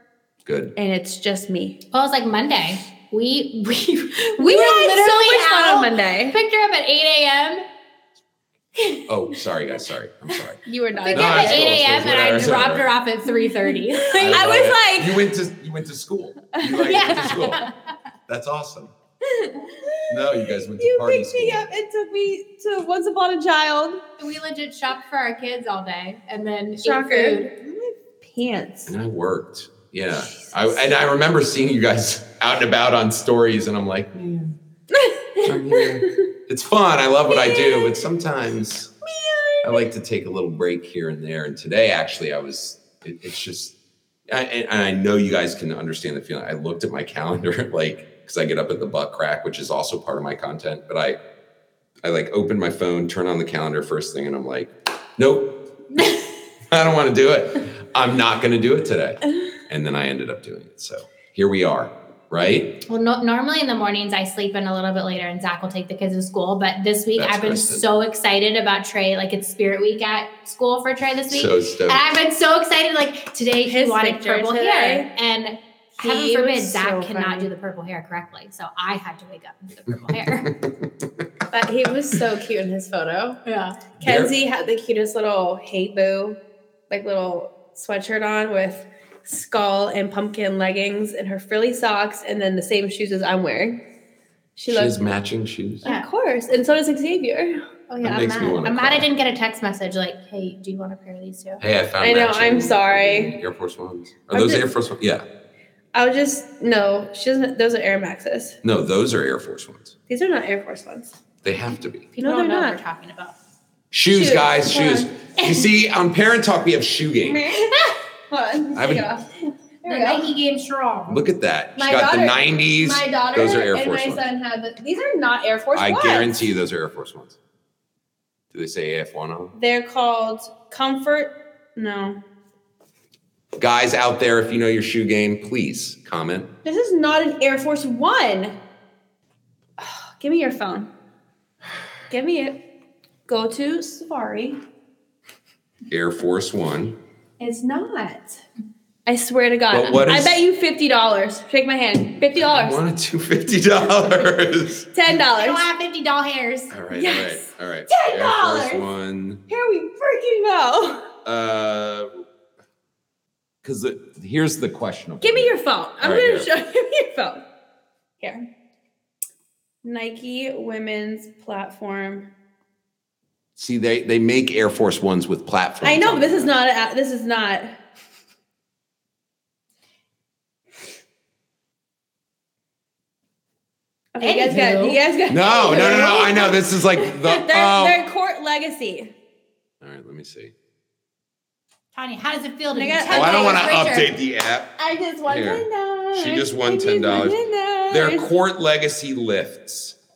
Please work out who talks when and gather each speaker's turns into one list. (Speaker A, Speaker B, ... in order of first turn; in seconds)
Speaker A: 0.5-0.7, 9.1-10.6, 11.1-12.9, 14.2-17.6, 18.3-18.9, 20.1-21.7, 28.9-34.6, 35.4-38.9, 39.6-43.8, 44.3-51.2, 52.0-55.6, 56.7-62.8, 67.2-67.8, 71.3-72.0, 80.1-81.1, 84.0-84.3, 94.7-95.8, 98.0-99.1, 101.6-105.2, 108.6-110.0, 111.4-112.1, 113.9-117.4, 118.8-119.1, 121.1-124.2, 125.7-127.4, 128.5-129.5, 133.6-136.5, 145.9-147.0, 149.7-150.4, 152.4-154.9, 156.7-159.4, 161.2-162.1, 163.6-166.5, 173.6-176.5, 185.3-188.0, 189.8-190.5, 193.1-194.7, 195.3-197.4, 197.9-200.0
Speaker B: 0.8-1.8, 4.4-6.4, 10.7-11.7, 12.3-12.7, 13.3-15.3, 16.6-16.9, 19.3-24.0, 26.8-28.9, 34.9-36.2, 37.3-38.1, 39.0-39.9, 73.7-75.1, 76.0-77.5, 81.5-83.4, 84.0-86.4, 86.9-93.8, 94.6-95.0, 95.8-97.6, 102.0-103.3, 104.3-104.6, 105.9-108.6, 110.1-111.1, 112.2-112.8, 114.1-115.1, 117.2-120.3, 121.8-126.5, 129.6-132.2, 136.7-138.6, 139.8-140.9, 142.1-142.6, 143.3-144.6, 147.4-148.4, 149.1-152.8, 154.9-155.7, 156.9-158.9, 159.5-161.1, 165.2-167.4, 168.2-168.5, 169.8-172.3, 175.8-177.7, 184.2-189.1, 192.7-193.7, 194.8-198.3
Speaker C: 1.9-7.7, 11.0-14.7, 16.8-17.7, 24.2-27.5, 62.9-80.5, 83.5-83.8, 97.9-101.6, 112.2-113.4, 115.4-115.7, 119.9-121.2, 155.4-156.7, 184.2-185.0, 191.9-194.1